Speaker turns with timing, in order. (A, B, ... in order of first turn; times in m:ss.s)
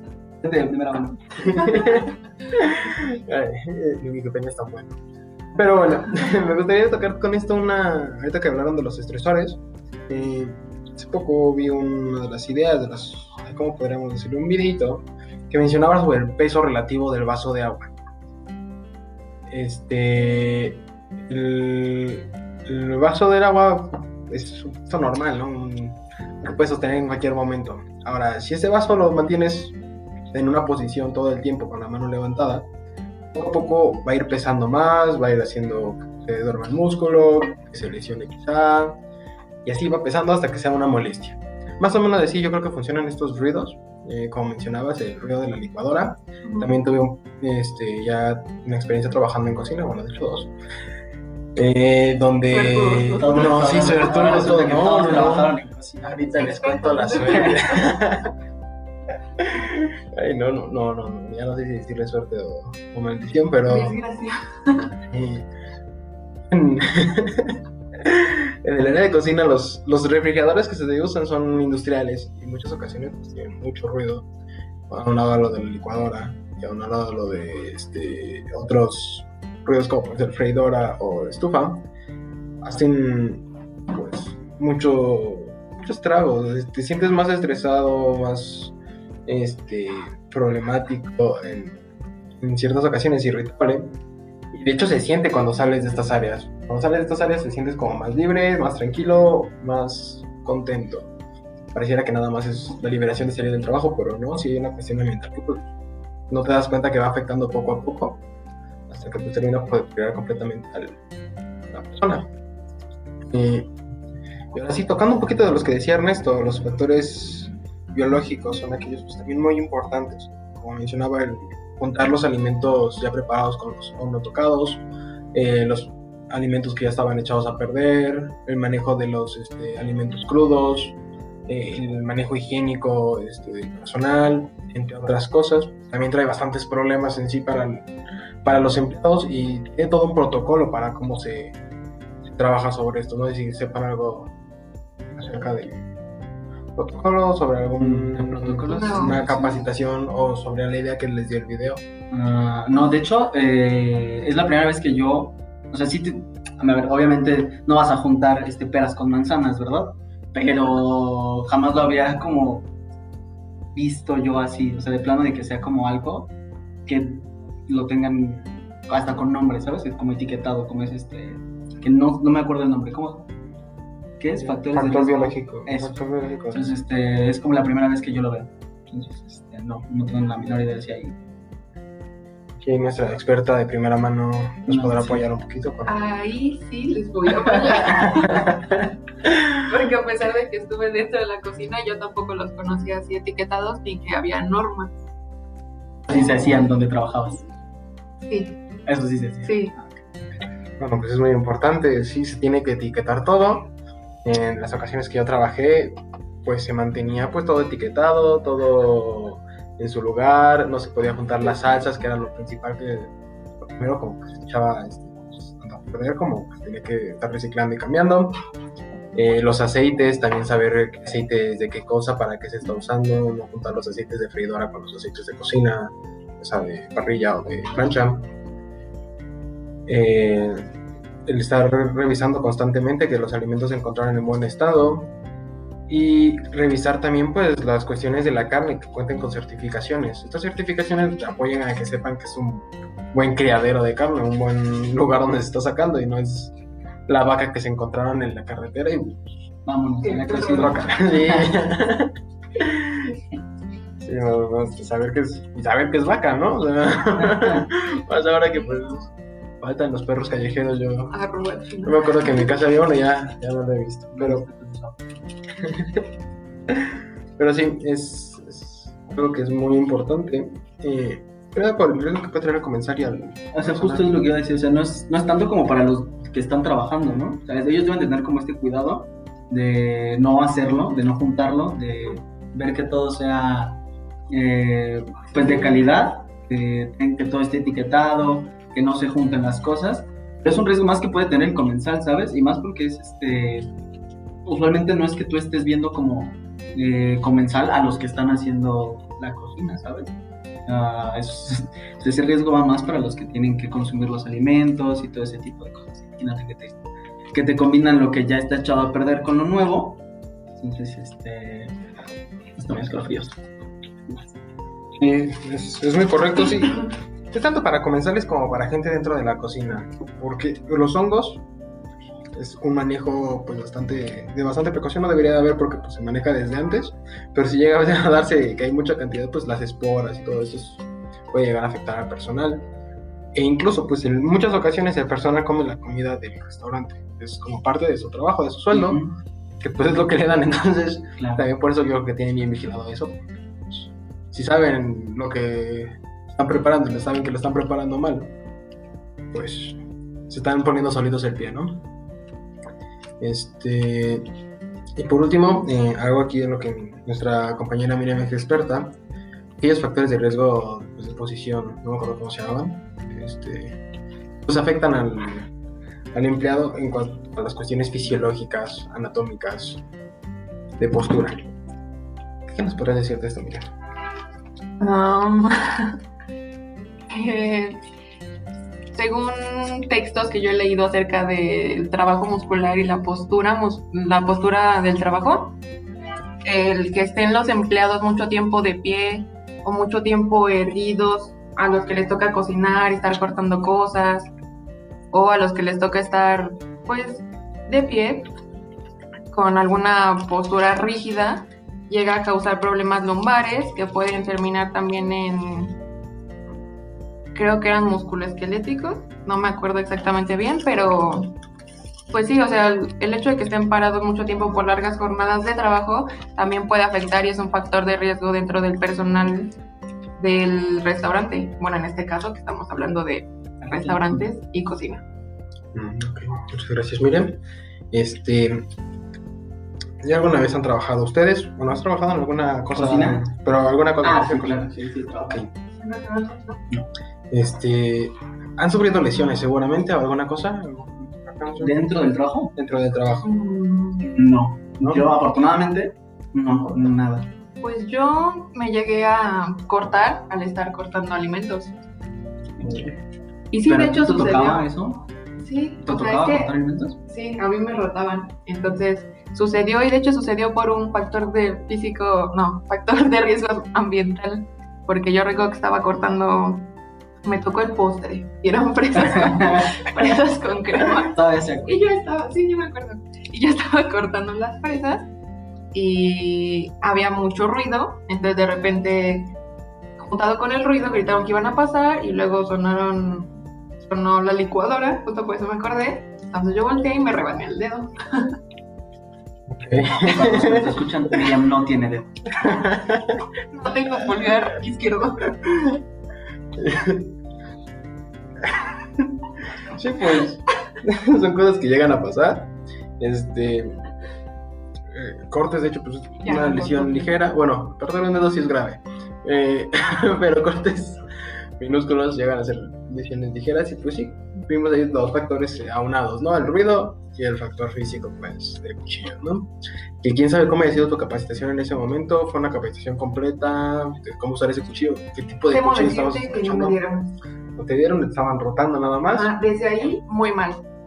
0:00.4-0:01.8 A
0:01.4-0:05.0 B
0:05.6-0:17.9 B
0:19.5-0:29.8 B
0:30.3-0:32.7 B
0:33.3-0:39.0 B
0:39.6-0:50.5 B
0:51.6-0:55.5 B
0:52.5-0:54.4 C
0:53.2-0:57.6 A
0:56.1-0:58.3 B
0:56.4-0:57.9 C
0:59.4-1:04.0 B
1:03.7-1:04.9 C
1:05.1-1:05.5 B
1:06.5-1:14.3 B
1:14.9-1:21.9 B
1:22.6-1:28.8 B
1:29.3-1:31.8 B
1:32.4-1:34.0 B
1:34.5-1:41.1 B
1:41.7-1:45.7 B
1:46.3-1:48.2 B
1:48.9-1:51.0 B
1:51.7-1:52.3 B
1:53.3-1:53.7 B
1:54.5-2:17.9 B
2:18.4-2:21.6 B
2:22.3-2:24.3 B
2:25.2-2:25.8 B
2:26.8-2:31.8 B
2:27.8-2:29.7 A
2:28.7-2:29.2 C
2:32.1-2:42.7 A
2:43.7-2:46.3 A
2:46.9-2:53.3 A
2:54.2-2:56.0 A
2:54.4-2:56.7 B
2:56.5-3:01.2 A
3:02.6-3:06.0 B
3:04.7-3:05.2 A
3:05.9-3:08.6 C
3:09.6-3:15.0 C
3:16.1-3:17.4 A
3:18.2-3:18.6 C
3:18.9-3:19.5 A
3:19.4-3:19.8 C
3:20.8-3:23.7 B
3:24.2-3:33.1 B
3:33.6-3:38.4 B
3:39.1-3:48.3 B
3:49.9-3:50.7 B
3:51.3-3:55.1 B
3:55.9-4:06.5 B
4:07.1-4:09.3 B
4:09.7-4:11.6 A
4:10.0-4:10.8 C
4:10.5-4:13.2 B
4:14.0-4:19.1 B
4:17.2-4:17.6 A
4:19.6-4:21.2 B
4:21.1-4:22.5 C
4:21.8-4:24.5 B
4:24.1-4:25.0 A
4:25.6-4:26.1 B
4:26.7-4:34.2 B
4:33.5-4:53.7 A
4:54.4-5:00.1 A
5:00.7-5:06.8 A
5:07.3-5:10.0 A
5:10.6-5:11.7 A
5:12.6-5:13.4 A
5:15.0-5:21.4 B
5:22.4-5:32.7 B
5:33.4-5:39.0 B
5:38.7-5:39.2 A
5:39.6-5:48.3 B
5:41.2-5:41.5 A
5:49.3-5:49.8 B
5:50.3-5:51.9 B
5:53.2-5:54.3 B
5:55.0-5:59.0 B
5:59.6-6:03.8 B
6:04.4-6:05.5 B
6:06.1-6:09.8 B
6:10.8-6:11.5 B
6:12.5-6:13.7 B
6:14.8-6:16.0 C
6:17.1-6:17.8 C
6:18.9-6:25.6 C
6:26.4-6:34.3 C
6:35.1-6:38.3 C
6:39.3-6:45.8 C
6:47.4-6:51.3 C
6:52.1-6:59.5 C
7:00.2-7:05.0 C
7:03.6-7:04.2 A
7:05.7-7:07.4 B
7:07.9-7:08.6 B
7:10.0-7:14.7 B
7:12.7-7:13.2 A
7:14.0-7:15.4 A
7:15.2-7:15.5 B
7:15.8-7:16.6 C
7:17.3-7:21.8 B
7:21.6-7:22.5 A
7:22.6-7:23.3 B
7:23.2-7:24.1 C
7:24.0-7:27.3 A
7:27.6-7:31.7 C
7:32.6-7:32.9 B
7:33.5-7:34.7 C
7:33.7-7:35.0 A
7:35.4-7:36.5 C
7:35.8-7:37.0 A
7:37.1-7:46.7 C
7:47.2-7:51.1 C
7:49.0-7:50.0 A
7:51.0-7:51.8 A
7:51.7-7:55.1 C
7:55.7-7:59.3 C
8:00.0-8:08.3 C
8:09.5-8:10.7 B
8:10.0-8:12.2 A
8:12.4-8:13.2 B
8:13.5-8:15.4 C
8:16.6-8:17.1 B
8:18.4-8:19.1 B
8:19.6-8:23.8 B
8:24.9-8:31.0 B
8:26.2-8:27.2 C
8:31.6-8:39.5 B
8:40.0-8:46.8 B
8:45.5-8:47.2 C
8:47.6-8:49.3 B
8:49.1-8:50.6 C